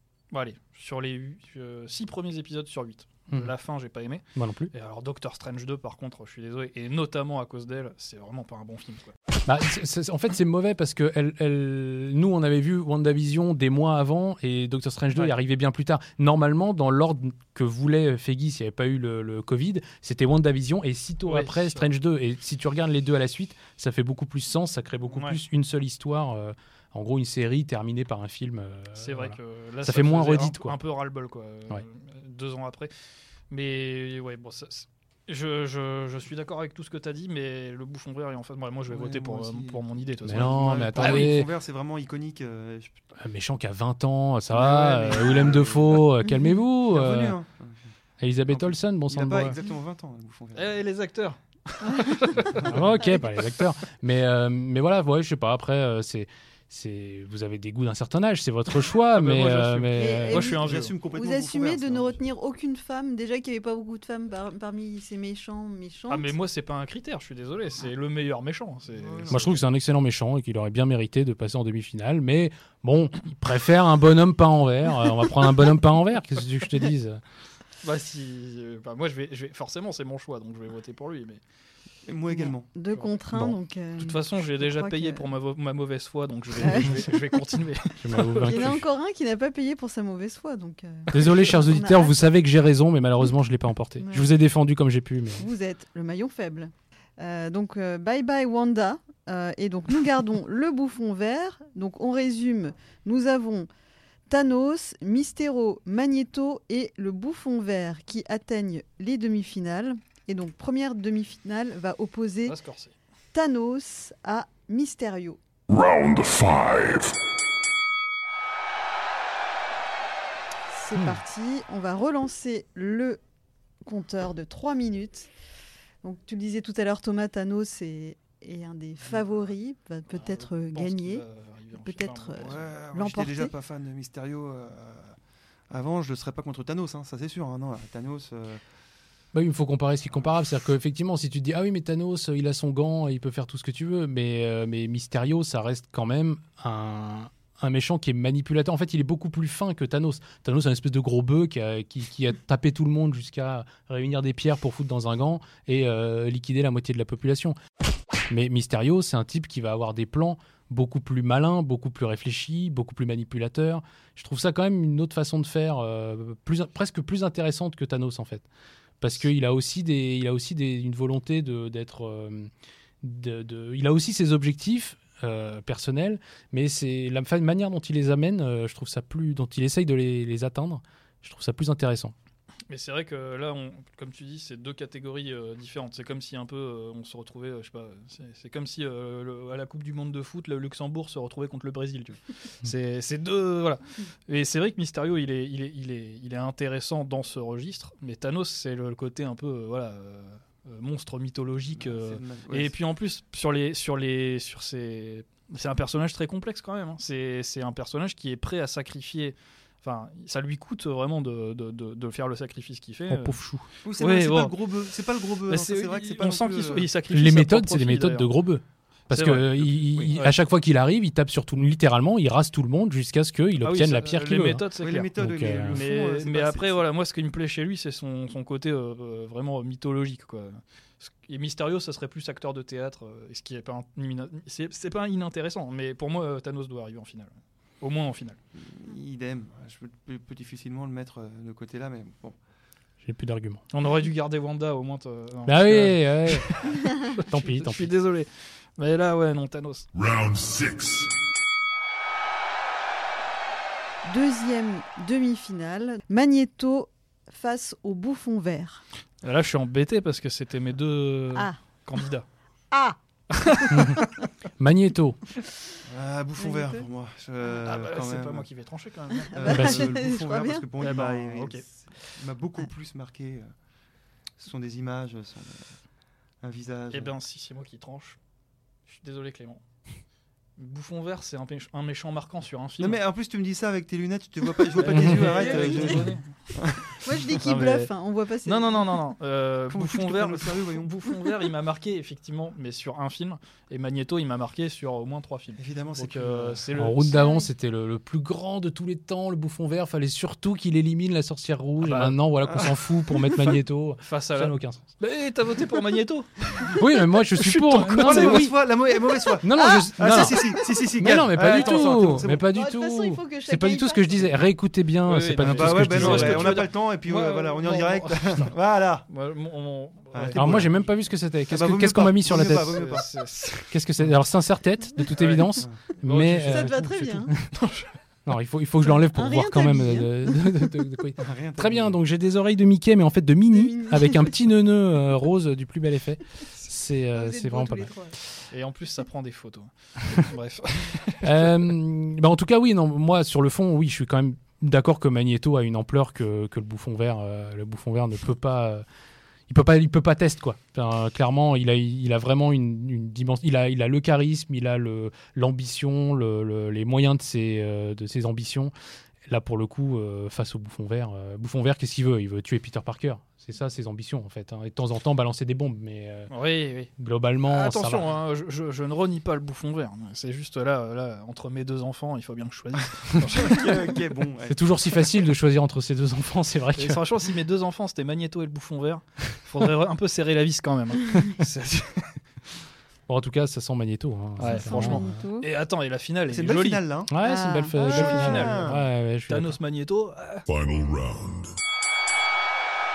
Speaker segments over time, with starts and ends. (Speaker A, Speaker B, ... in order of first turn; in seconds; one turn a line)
Speaker A: 0.3-9.2
Speaker B: 4.4-4.7
Speaker B: 9.5-30.8
Speaker A: 21.3-21.9
Speaker A: 25.1-25.4
Speaker A: 29.0-32.9
Speaker A: 33.5-41.3
Speaker C: 38.9-43.0
Speaker B: 40.2-41.5
Speaker B: 43.2-47.4
Speaker C: 44.5-46.2
Speaker D: 46.2-46.6
Speaker C: 46.9-47.8
Speaker B: 48.2-49.6
Speaker C: 48.4-50.8
Speaker A: 50.5-53.0
Speaker D: 51.8-52.5
Speaker B: 52.6-60.5
Speaker A: 59.1-60.9
Speaker D: 60.0-66.3
Speaker C: 60.4-62.2
Speaker A: 66.1-69.4
Speaker C: 68.9-69.6
Speaker B: 69.3-77.2
Speaker A: 77.8-81.4
Speaker C: 82.1-82.7
Speaker D: 82.7-85.3
Speaker A: 84.0-88.7
Speaker D: 86.6-87.1
Speaker B: 86.8-87.1
Speaker B: 88.0-88.8
Speaker D: 88.5-92.2
Speaker A: 91.1-91.4
Speaker B: 91.1-95.5
Speaker D: 94.0-94.3
Speaker D: 95.4-103.7
Speaker D: 104.3-112.6
Speaker A: 112.5-113.0
Speaker D: 113.3-115.4
Speaker E: 115.7-117.2
Speaker D: 120.7-123.2
Speaker B: 121.0-121.2
Speaker D: 123.8-125.3
Speaker D: 126.0-131.2
Speaker A: 130.1-132.7
Speaker D: 131.8-133.5
Speaker C: 132.4-135.2
Speaker C: 135.7-138.6
Speaker B: 139.3-157.6
Speaker B: 158.3-168.5
Speaker B: 169.0-172.5
Speaker B: 173.0-182.1
Speaker A: 182.7-213.4
Speaker C: 201.8-202.8
Speaker B: 213.1-213.7
Speaker C: 213.8-216.9
Speaker A: 214.0-214.5
Speaker A: 215.5-218.3
Speaker B: 217.1-224.7
Speaker A: 219.1-220.4
Speaker A: 223.6-225.1
Speaker C: 224.5-226.8
Speaker B: 225.2-225.9
Speaker A: 225.7-238.4
Speaker C: 238.6-242.4
Speaker B: 243.0-243.6
Speaker A: 243.7-249.9
Speaker B: 245.5-246.7
Speaker B: 247.2-247.9
Speaker E: 249.9-251.1
Speaker D: 254.1-258.8
Speaker A: 259.2-262.3
Speaker A: 263.3-264.3
Speaker B: 263.7-264.0
Speaker B: 264.6-265.2
Speaker C: 265.9-268.5
Speaker D: 266.4-266.8
Speaker A: 267.6-269.6
Speaker C: 269.3-273.5
Speaker D: 269.3-270.7
Speaker B: 269.5-269.9
Speaker A: 270.8-271.6
Speaker C: 274.4-275.7
Speaker C: 276.4-277.1
Speaker A: 276.9-278.2
Speaker A: 278.9-279.6
Speaker A: 280.6-283.0
Speaker C: 282.8-287.0
Speaker A: 284.6-286.2
Speaker D: 285.3-285.9
Speaker D: 287.0-288.9
Speaker A: 287.4-287.9
Speaker A: 288.4-297.2
Speaker C: 289.7-291.2
Speaker C: 295.6-296.7
Speaker B: 296.8-304.9
Speaker D: 297.1-297.5
Speaker A: 301.8-302.2
Speaker C: 302.5-302.8
Speaker A: 304.0-306.8
Speaker B: 306.8-308.5
Speaker A: 307.4-308.5
Speaker C: 307.9-312.5
Speaker B: 309.4-316.6
Speaker D: 309.6-309.9
Speaker A: 311.5-312.1
Speaker D: 312.5-314.3
Speaker A: 315.1-318.5
Speaker C: 315.4-319.1
Speaker A: 319.1-320.9
Speaker C: 320.1-320.8
Speaker B: 320.3-322.8
Speaker C: 321.5-323.1
Speaker A: 322.4-323.7
Speaker B: 323.7-327.5
Speaker A: 325.1-326.9
Speaker C: 325.5-325.8
Speaker D: 326.5-327.3
Speaker A: 327.5-327.9
Speaker B: 328.3-337.9
Speaker D: 328.9-330.7
Speaker C: 331.2-332.0
Speaker D: 333.5-334.3
Speaker D: 337.1-338.2
Speaker A: 338.5-341.6
Speaker B: 341.2-348.8
Speaker B: 349.5-358.7
Speaker B: 359.3-366.3
Speaker A: 366.3-366.9
Speaker B: 367.0-368.2
Speaker A: 367.5-373.7
Speaker C: 373.3-374.9
Speaker B: 374.5-377.0
Speaker A: 376.8-382.2
Speaker B: 383.1-385.1
Speaker A: 384.4-386.8
Speaker D: 384.5-385.5
Speaker C: 386.3-387.1
Speaker B: 387.1-389.6
Speaker D: 387.2-388.2
Speaker C: 387.8-388.8
Speaker A: 387.8-388.8
Speaker A: 389.3-390.5
Speaker E: 390.5-391.5